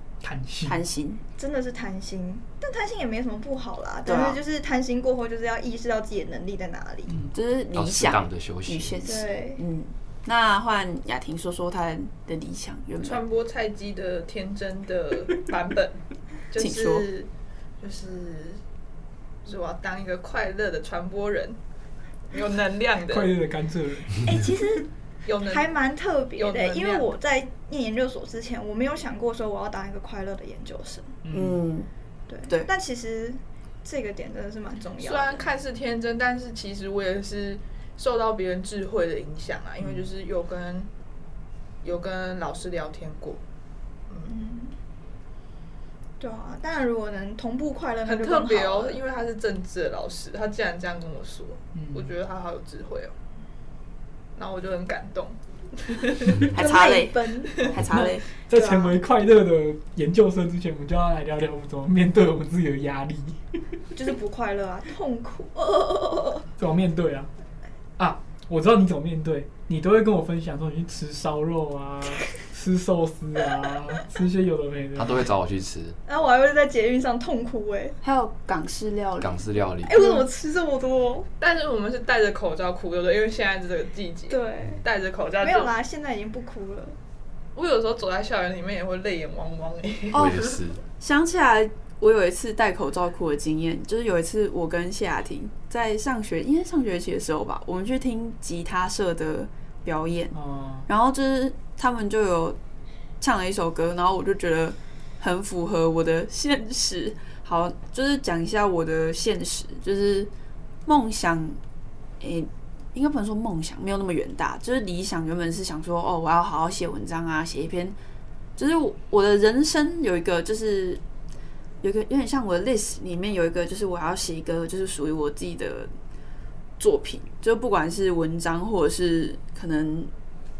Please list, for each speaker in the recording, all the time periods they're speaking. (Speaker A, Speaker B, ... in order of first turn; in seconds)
Speaker A: 0.2-0.8, 7.1-7.3, 23.1-24.5, 31.2-31.6, 51.7-52.1, 57.9-63.4, 66.6-67.3, 68.0-75.2, 100.3-100.9
Speaker B: 0.7-1.2, 4.0-4.4, 7.3-13.2, 16.5-17.1, 31.3-31.9, 56.5-58.2, 78.0-79.5, 90.1-90.4, 91.0-102.6, 103.2-110.3, 110.8-111.6, 112.2-118.0, 118.6-121.0, 121.8-125.9, 126.8-130.1
Speaker C: 1.4-7.2, 9.0-9.6, 24.2-24.9, 25.4-31.1, 32.3-35.5, 44.3-44.7, 46.2-49.0, 56.5-57.8, 58.5-58.9, 63.9-66.5, 76.0-78.0, 79.8-81.3, 84.3-84.8, 85.4-87.0
Speaker D: 7.7-9.1, 75.0-76.0, 79.2-80.0, 90.1-90.8
Speaker E: 13.0-17.3, 17.8-18.6, 19.4-21.6, 22.3-23.3, 25.2-25.7, 26.4-27.1, 35.0-40.9, 41.8-43.4, 48.0-53.1, 54.4-56.5, 81.4-85.7, 87.5-90.5